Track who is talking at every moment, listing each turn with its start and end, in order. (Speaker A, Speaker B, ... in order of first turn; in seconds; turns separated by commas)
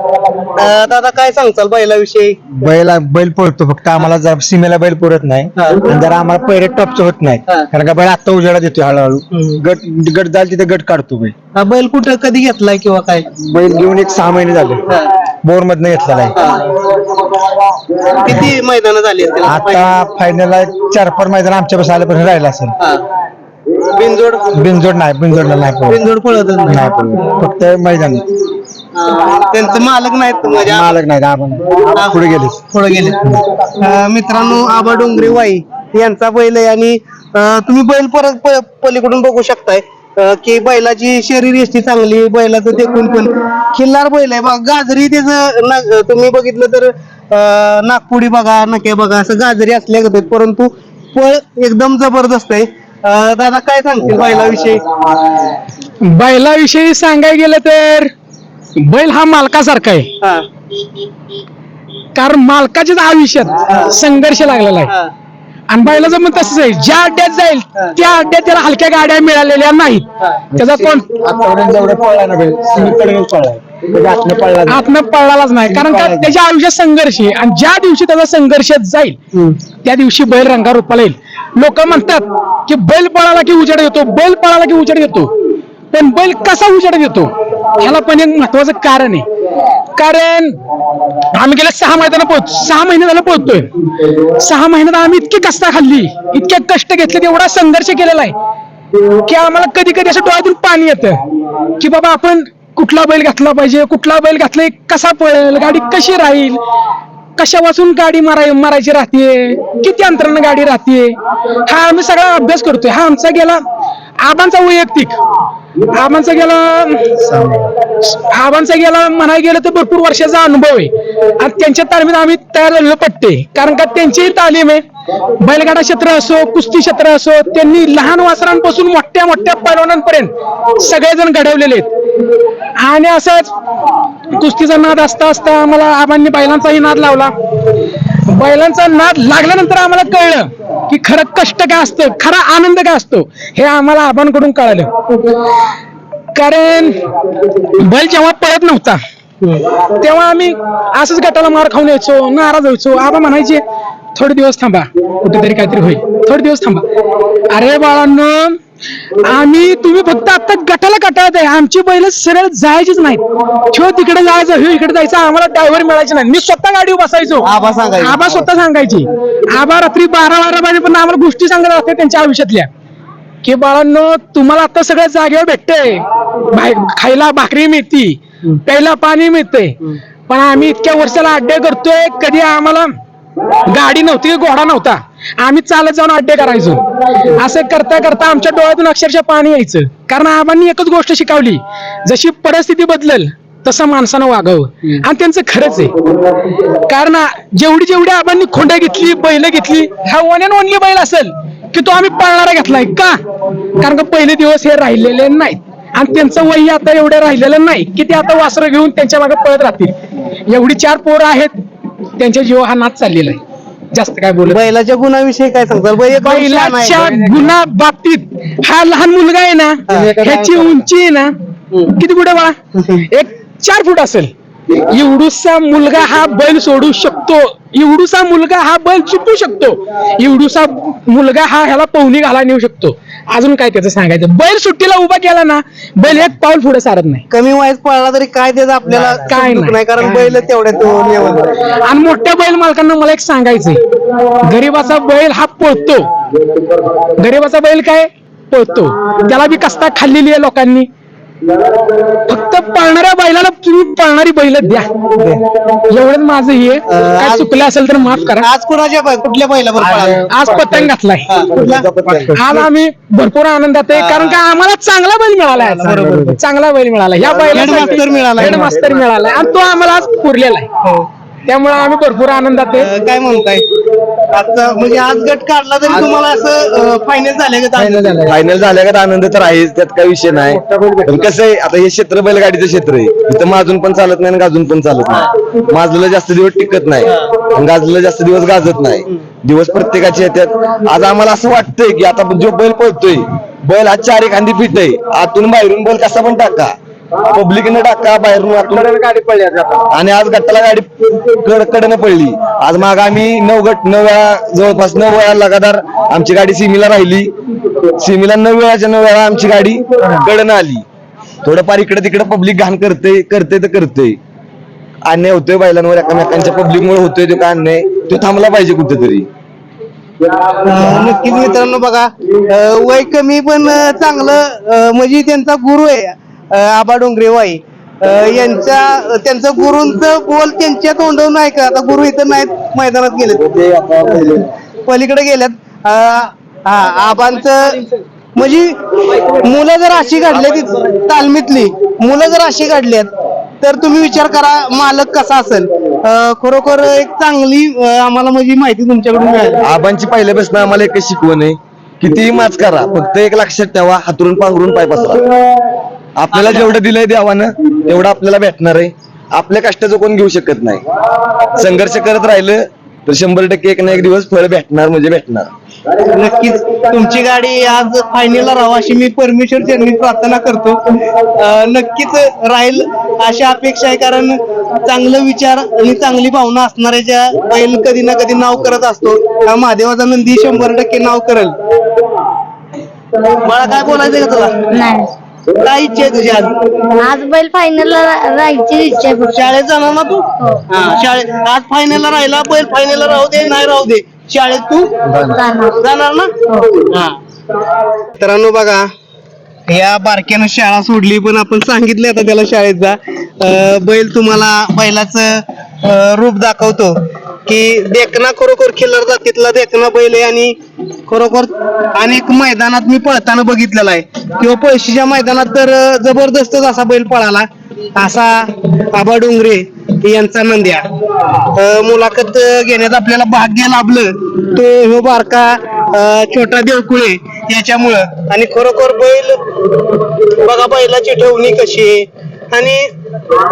Speaker A: 0.5-2.4, Speaker B: 2.6-11.3, Speaker A: 5.6-5.8, Speaker A: 9.3-9.6, Speaker A: 11.6-13.3, Speaker B: 13.3-14.8, Speaker B: 15.4-16.4, Speaker A: 16.4-16.7, Speaker A: 18.1-19.9, Speaker B: 19.4-22.8, Speaker A: 23.9-24.5, Speaker B: 24.5-26.1, Speaker A: 25.9-26.8, Speaker B: 26.7-28.3, Speaker A: 29.0-30.9, Speaker B: 30.7-32.6, Speaker A: 31.9-54.8, Speaker C: 56.0-58.1, Speaker C: 58.8-60.1, Speaker C: 62.1-64.9, Speaker A: 63.6-63.9, Speaker C: 65.7-71.1, Speaker B: 70.5-74.9, Speaker C: 74.7-79.2, Speaker B: 75.8-76.3, Speaker C: 79.8-85.3, Speaker C: 85.9-89.3, Speaker C: 90.0-90.5, Speaker C: 91.3-93.7, Speaker C: 94.4-98.3, Speaker C: 99.2-101.2, Speaker C: 101.8-106.6, Speaker C: 107.4-111.2, Speaker C: 111.7-113.6, Speaker C: 114.2-115.2, Speaker C: 116.0-117.2, Speaker B: 117.3-117.7, Speaker C: 118.0-124.8, Speaker C: 125.4-131.9, Speaker C: 132.8-133.6, Speaker C: 134.3-137.3, Speaker C: 138.3-144.9, Speaker C: 146.3-147.1, Speaker C: 147.8-149.0, Speaker C: 149.9-153.6, Speaker C: 154.2-156.9, Speaker C: 157.5-158.6, Speaker C: 159.2-167.5, Speaker A: 167.4-168.2, Speaker C: 168.0-172.7, Speaker C: 173.4-182.9, Speaker C: 183.7-195.9, Speaker C: 196.7-203.2, Speaker C: 203.8-209.9, Speaker C: 210.5-211.5, Speaker C: 212.2-213.4, Speaker C: 213.9-214.6, Speaker A: 214.5-217.0, Speaker C: 216.2-221.3, Speaker A: 219.9-220.2, Speaker B: 219.9-220.8, Speaker C: 221.9-222.6, Speaker A: 222.8-223.0, Speaker C: 223.1-237.2, Speaker A: 237.3-241.5, Speaker C: 239.1-240.3, Speaker C: 241.8-243.8, Speaker C: 244.4-246.1, Speaker C: 247.2-250.9, Speaker C: 252.3-254.9, Speaker B: 255.2-255.4, Speaker C: 255.9-258.5, Speaker A: 256.9-257.6, Speaker A: 258.3-260.3, Speaker B: 259.8-262.7, Speaker C: 260.3-261.3, Speaker A: 261.3-261.9, Speaker C: 262.3-270.7, Speaker A: 263.9-264.4, Speaker A: 265.6-266.4, Speaker B: 265.9-266.4, Speaker B: 267.2-269.1, Speaker A: 267.5-268.7, Speaker C: 271.5-272.9, Speaker A: 272.8-273.6, Speaker A: 274.3-278.3, Speaker B: 277.8-278.4, Speaker D: 278.2-296.7, Speaker B: 280.5-281.3, Speaker D: 297.3-298.9, Speaker B: 298.7-299.9, Speaker D: 299.9-307.3, Speaker D: 308.0-310.8, Speaker D: 311.4-314.2, Speaker D: 315.1-319.3, Speaker A: 320.6-333.5, Speaker A: 334.9-337.8, Speaker A: 338.4-343.1, Speaker A: 343.6-349.6, Speaker D: 349.6-355.2, Speaker D: 356.1-360.8, Speaker A: 356.3-356.7, Speaker D: 361.5-365.5, Speaker A: 366.1-381.6, Speaker A: 383.2-384.6, Speaker E: 384.7-385.1, Speaker A: 385.6-386.5, Speaker E: 387.0-389.5, Speaker A: 389.2-394.9, Speaker E: 390.4-390.6, Speaker B: 395.1-395.4, Speaker E: 395.2-395.8, Speaker A: 395.8-396.3, Speaker E: 396.4-396.8, Speaker A: 398.1-398.8, Speaker A: 399.7-410.5, Speaker A: 411.1-420.8, Speaker A: 421.5-429.4, Speaker A: 430.3-432.9